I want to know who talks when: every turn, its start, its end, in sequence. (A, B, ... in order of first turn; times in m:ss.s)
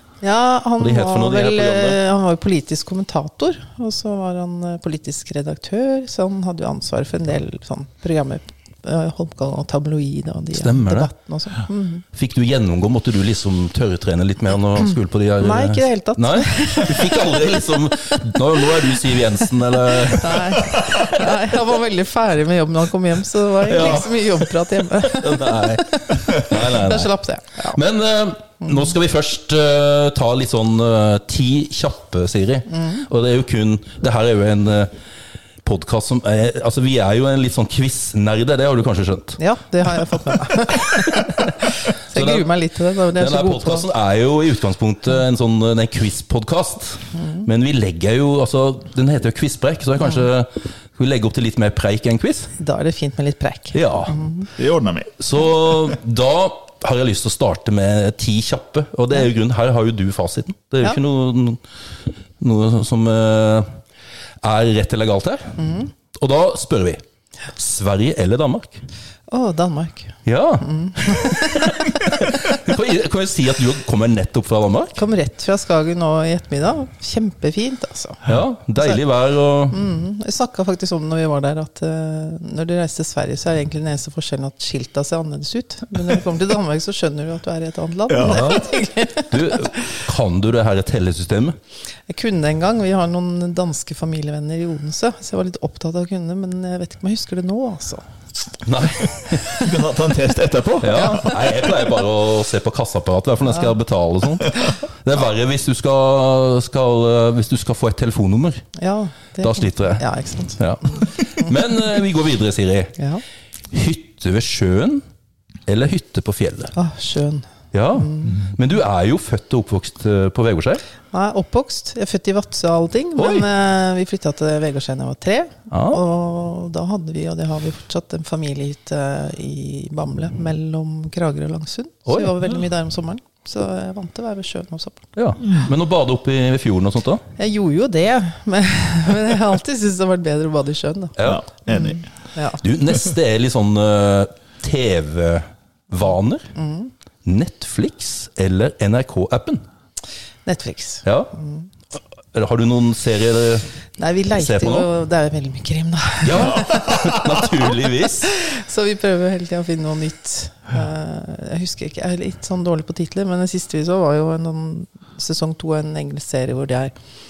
0:00.2-0:12.0 A
0:00.8-0:02.0 B
0:10.5-0:11.1 B
0:12.1-0:20.8 B
0:15.4-0:17.5 A
0:20.1-0:27.8 A
0:20.6-0:21.1 C
0:23.7-0:24.5 B
0:25.1-0:27.1 B
0:27.7-0:34.9 B
0:28.7-0:28.9 A
0:32.7-0:33.0 A
0:35.6-0:39.4 B
0:39.4-0:43.9 A
0:40.2-0:42.4 B
0:43.1-0:52.5 B
0:47.1-0:47.5 A
0:52.6-0:54.5 A
0:53.7-0:54.2 B
0:54.6-0:55.2 C
0:55.2-1:01.6 B
1:02.4-1:03.7 B
1:04.4-1:05.6 B
1:05.6-1:05.9 A
1:06.1-1:07.0 B
1:07.5-1:08.8 B
1:09.3-1:12.4 A
1:10.2-1:15.0 B
1:15.0-1:18.2 A
1:18.2-1:19.8 B
1:19.7-1:29.9 A
1:28.1-1:28.6 C
1:28.2-1:28.6 B
1:29.2-1:31.6 B
1:32.1-1:38.0 A
1:38.6-1:39.6 B
1:39.5-1:41.3 C
1:40.8-1:48.6 B
1:41.0-1:41.3 A
1:48.8-1:50.6 A
1:49.4-1:50.0 B
1:50.6-1:52.9 B
1:53.7-1:55.0 B
1:55.7-1:56.7 B
1:56.7-1:58.4 A
1:57.7-2:00.8 B
2:01.1-2:15.1 A
2:03.2-2:03.5 B
2:05.7-2:06.0 B
2:12.1-2:12.3 B
2:15.2-2:17.2 B
2:15.4-2:15.7 C
2:17.4-2:21.2 A
2:21.2-2:21.4 B
2:21.2-2:22.0 C
2:21.7-2:22.6 A
2:22.6-2:26.5 B
2:26.6-2:26.9 A
2:27.2-2:29.6 B
2:30.4-2:31.7 A
2:31.0-2:31.3 B
2:32.3-2:33.7 B
2:34.0-2:46.9 A
2:34.3-2:34.9 B
2:36.2-2:38.3 B
2:36.4-2:37.2 C